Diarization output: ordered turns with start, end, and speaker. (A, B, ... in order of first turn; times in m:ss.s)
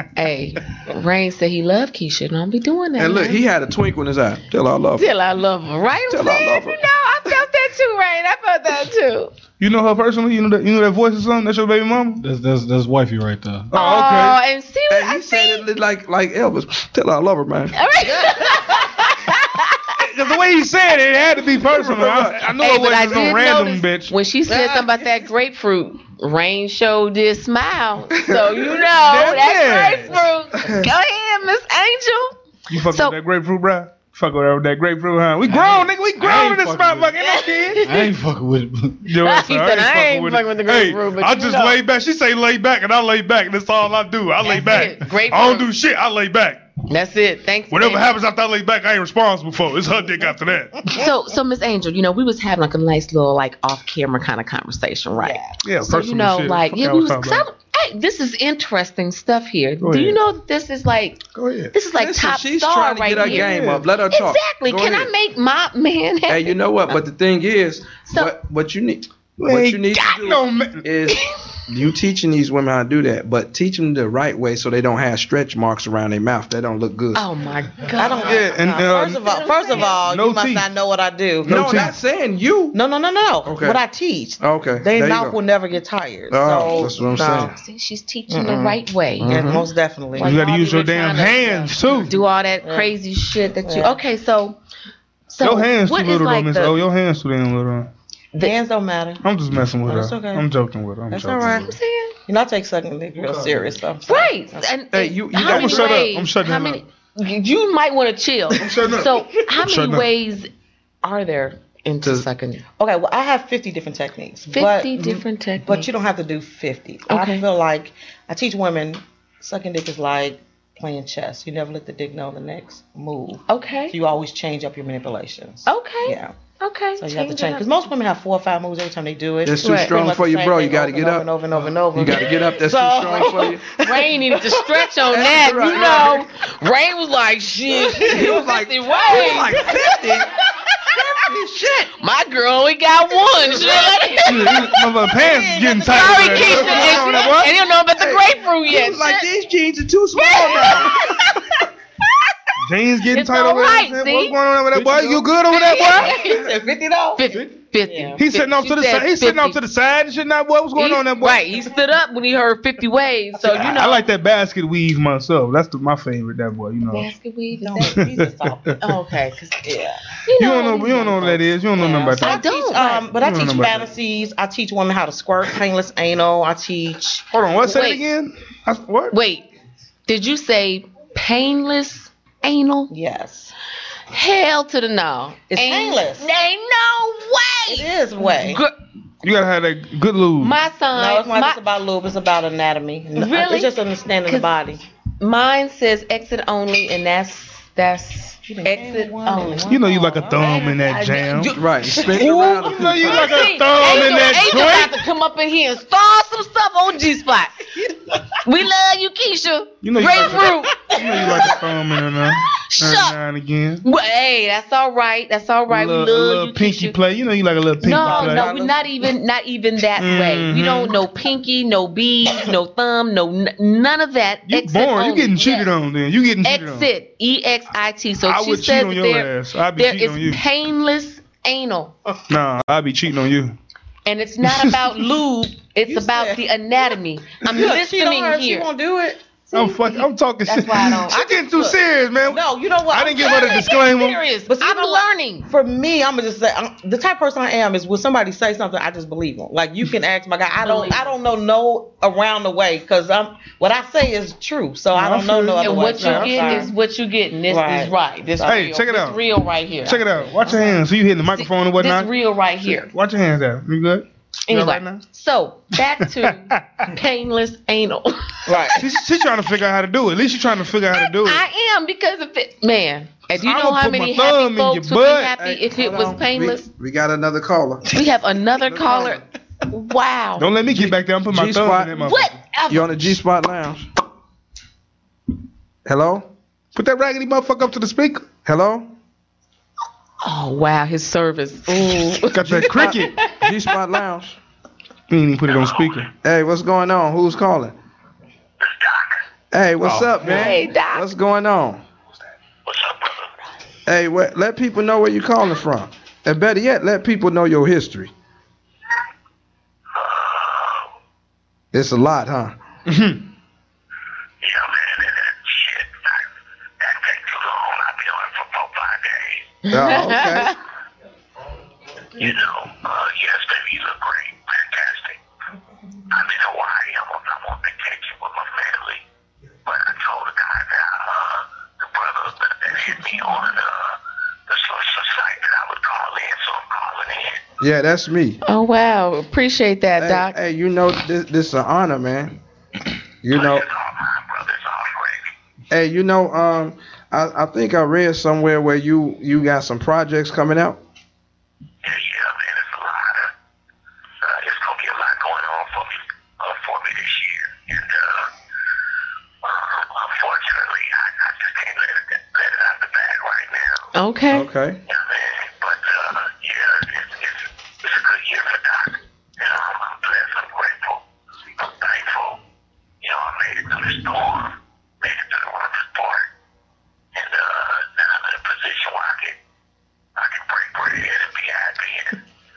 0:00.2-0:03.4 A
0:03.0-0:05.1 B
0:05.0-0:09.3 A
0:06.1-0:06.8 B
0:09.6-0:12.2 C
0:12.2-0:13.7 D
0:13.7-0:14.4 C
0:13.7-0:15.6 A
0:14.9-0:17.7 B
0:17.7-0:20.0 A
0:20.0-0:24.1 C
0:21.7-0:22.5 B
0:22.6-0:32.4 A
0:24.5-0:24.9 E
0:28.1-0:29.5 B
0:29.1-0:30.2 C
0:32.7-0:38.0 C
0:32.9-0:33.2 A
0:35.5-0:37.1 D
0:37.2-0:38.1 A
0:37.8-0:39.0 D
0:39.0-0:46.6 C
0:39.2-0:41.8 A
0:44.4-0:45.7 A
0:46.9-0:48.1 A
0:47.7-0:50.9 C
0:50.9-1:01.2 A
0:55.2-0:55.4 E
0:55.6-0:57.4 C
0:59.8-1:00.2 C
1:01.3-1:01.7 C
1:01.7-1:03.6 A
1:01.9-1:05.1 B
1:03.2-1:03.8 C
1:04.1-1:07.0 A
1:06.3-1:17.2 B
1:08.1-1:08.3 A
1:09.4-1:10.8 C
1:11.1-1:11.4 A
1:17.1-1:18.4 A
1:17.9-1:21.6 E
1:18.2-1:19.2 C
1:19.2-1:20.0 A
1:20.0-1:20.6 C
1:21.4-1:21.9 C
1:21.4-1:22.8 B
1:22.7-1:27.5 E
1:23.4-1:23.8 B
1:24.4-1:25.4 B
1:26.3-1:27.5 B
1:26.6-1:29.5 A
1:28.3-1:30.4 E
1:30.1-1:34.6 A
1:30.2-1:32.1 C
1:32.6-1:32.9 E
1:33.6-1:34.0 E
1:35.3-1:36.8 A
1:35.4-1:37.9 C
1:38.4-1:39.2 E
1:39.2-1:41.7 C
1:39.8-1:40.4 E
1:41.1-1:41.7 E
1:41.4-1:42.1 A
1:42.3-1:44.7 E
1:44.1-1:50.5 A
1:44.9-1:46.0 B
1:45.4-1:46.8 C
1:48.6-1:50.0 C
1:51.0-1:52.6 A
1:52.8-2:06.3 E
1:54.5-1:55.9 A
1:57.1-1:57.4 A
2:03.5-2:04.0 A
2:05.6-2:07.6 A
2:07.0-2:14.9 E
2:09.4-2:11.3 B
2:09.6-2:09.9 A
2:11.9-2:13.6 B
2:13.2-2:20.9 A
2:15.1-2:16.2 B
2:18.0-2:20.3 B
2:20.9-2:21.9 B
2:22.0-2:24.7 A
2:23.3-2:27.3 E
2:24.2-2:27.5 C
2:25.8-2:29.2 A
2:26.5-2:27.0 B
2:27.9-2:31.1 B
2:30.2-2:31.5 A
2:32.6-2:36.2 C
2:33.1-2:34.3 A
2:34.8-2:38.2 E
2:35.5-2:36.4 A
2:37.2-2:39.6 A
2:38.2-2:41.4 C
2:40.8-2:44.0 A
2:43.5-2:47.1 C
2:46.9-2:48.0 A
2:47.6-2:49.0 E
2:48.8-2:49.6 A
2:49.6-2:50.0 E
2:50.2-2:53.1 A
2:50.4-2:52.4 C
2:51.8-2:57.2 E
2:53.2-2:53.9 C
2:57.3-2:59.1 C
2:57.6-2:58.0 A
2:59.1-2:59.5 A
3:00.1-3:02.9 A
3:02.9-3:03.5 E
3:04.1-3:08.7 A
3:05.5-3:06.3 E
3:07.7-3:08.6 E
3:09.2-3:10.5 C
3:10.4-3:11.6 A
3:10.9-3:14.8 E
3:13.2-3:14.5 A
3:15.2-3:27.6 A
3:18.4-3:20.8 E
3:19.7-3:21.5 C
3:21.5-3:23.3 B
3:22.2-3:25.0 C
3:28.4-3:31.3 A
3:29.8-3:33.8 C
3:32.6-3:33.2 A
3:33.8-3:37.0 A
3:35.7-3:38.5 C
3:37.8-3:45.7 A
3:37.8-3:38.9 E
3:40.0-3:41.0 C
3:44.5-3:46.9 C
3:46.4-3:51.9 A
3:48.2-3:50.4 C
3:52.3-3:53.5 C
3:54.0-3:58.7 A
3:54.4-3:54.8 C
3:55.8-3:56.5 E
3:57.4-3:59.2 E
3:59.5-4:01.0 A
3:59.5-4:04.2 C
4:00.5-4:03.6 E
4:03.2-4:05.5 A
4:04.5-4:16.7 E
4:10.6-4:11.0 A
4:14.9-4:16.6 C
4:15.6-4:20.8 A
4:17.5-4:18.4 E
4:18.4-4:19.2 C
4:19.8-4:22.1 C
4:20.4-4:20.7 E
4:21.3-4:22.9 A
4:22.7-4:25.0 C
4:24.5-4:28.4 A
4:26.3-4:26.6 C
4:28.4-4:28.9 E
4:28.8-4:31.4 C
4:30.9-4:36.6 A
4:33.3-4:35.3 C
4:35.4-4:37.9 B
4:37.9-4:40.5 A
4:38.6-4:39.2 B
4:40.4-4:42.3 C
4:40.8-4:42.0 B
4:41.9-4:43.0 A
4:42.7-4:43.9 B
4:45.8-4:46.3 B
4:46.7-4:48.3 C
4:48.4-4:48.9 B
4:50.2-4:53.5 A
4:52.3-4:53.2 C
4:52.4-4:54.4 B
4:55.1-4:56.1 C
4:55.5-4:56.0 F
4:56.1-4:57.7 B
4:58.6-4:59.2 F
4:59.5-5:01.8 B
4:59.8-5:00.5 C
5:00.3-5:01.0 A
5:02.6-5:03.3 F
5:03.9-5:08.1 B
5:09.9-5:10.9 F
5:11.7-5:12.5 B
5:12.9-5:13.2 C
5:14.4-5:16.3 F
5:16.8-5:19.6 F
5:19.7-5:20.5 B
5:19.7-5:20.5 A
5:22.2-5:25.2 F
5:26.1-5:29.0 F
5:29.6-5:37.4 F
5:37.6-5:38.4 B
5:38.4-5:40.3 A
5:40.0-5:42.4 B
5:43.2-5:43.6 B
5:43.3-5:45.3 F
5:45.7-5:50.8 B
5:51.8-5:53.3 F
5:54.2-5:58.3 F
5:59.4-6:03.9 F
6:03.9-6:04.4 A
6:04.3-6:04.8 B
6:04.8-6:11.0 F
6:11.6-6:12.4 F
6:13.0-6:16.3 F
6:17.1-6:19.4 F
6:20.2-6:22.2 F